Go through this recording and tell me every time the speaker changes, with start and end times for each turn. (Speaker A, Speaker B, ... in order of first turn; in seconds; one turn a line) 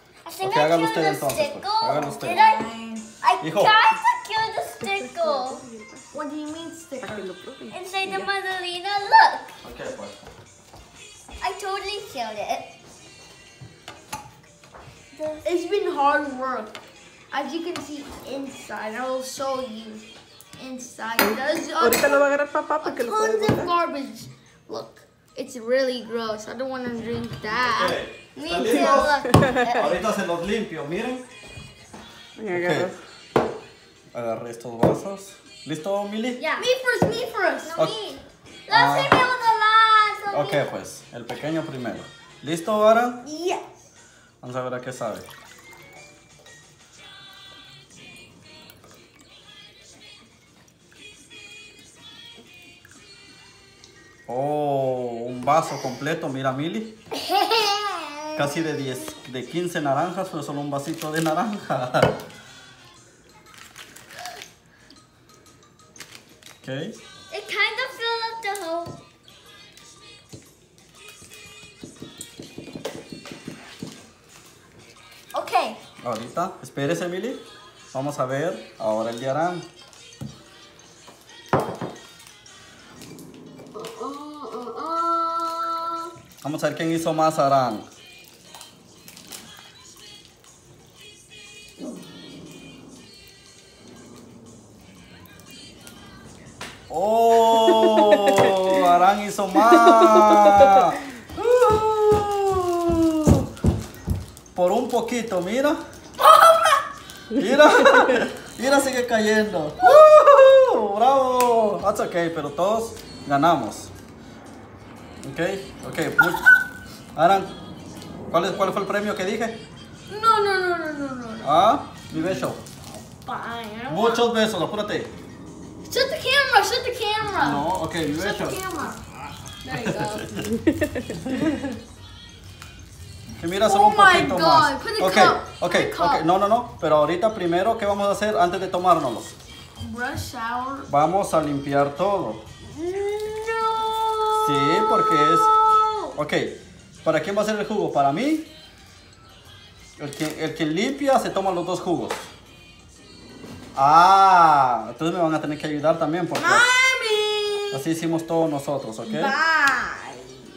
Speaker A: 0.2-2.7
Speaker B: 0.4-2.4
Speaker C: 2.1-3.1
Speaker A: 3.2-5.6
Speaker B: 3.4-3.8
Speaker D: 4.8-6.1
Speaker C: 6.1-7.3
Speaker D: 7.0-8.3
Speaker A: 7.7-9.5
Speaker B: 9.6-10.3
Speaker A: 11.4-12.7
Speaker A: 15.2-15.4
Speaker C: 15.4-16.8
Speaker C: 17.3-22.3
Speaker D: 21.2-23.7
Speaker C: 22.8-29.2
Speaker B: 27.6-31.2
Speaker A: 28.6-29.9
Speaker D: 32.4-33.0
Speaker B: 32.5-32.9
Speaker B: 34.1-36.5
Speaker A: 36.4-36.7
Speaker C: 36.6-37.9
Speaker A: 37.7-40.6
Speaker B: 38.7-39.2
Speaker B: 40.3-43.3
Speaker C: 43.2-43.6
Speaker B: 44.4-45.3
Speaker B: 54.3-57.0
Speaker A: 57.2-58.3
Speaker B: 58.3-62.2
Speaker B: 66.6-67.0
Speaker A: 67.3-69.0
Speaker A: 75.3-75.8
Speaker B: 76.0-77.4
Speaker B: 77.9-79.7
Speaker A: 84.0-85.9
Speaker B: 86.4-87.9
Speaker B: 96.9-103.5
Speaker D: 97.7-98.8
Speaker D: 99.9-100.8
Speaker B: 104.5-105.8
Speaker C: 106.4-106.7
Speaker B: 107.3-113.9
Speaker D: 107.6-108.2
Speaker B: 115.2-116.5
Speaker B: 117.2-117.5
Speaker B: 118.3-119.6
Speaker C: 120.1-121.6
Speaker B: 121.4-122.6
Speaker C: 122.1-124.3
Speaker B: 123.9-125.1
Speaker C: 125.8-129.0
Speaker B: 127.4-128.9
Speaker C: 129.6-130.3
Speaker B: 129.7-130.4
Speaker D: 130.5-131.1
Speaker B: 131.2-131.7
Speaker B: 133.3-139.4
Speaker C: 133.6-136.3
Speaker C: 139.8-140.9
Speaker B: 140.9-142.4
Speaker C: 142.7-146.1
Speaker B: 144.4-145.6
Speaker B: 146.2-148.5
Speaker B: 150.0-152.3
Speaker B: 153.8-156.7
Speaker C: 156.3-157.8
Speaker B: 157.7-159.3
Speaker C: 159.1-160.4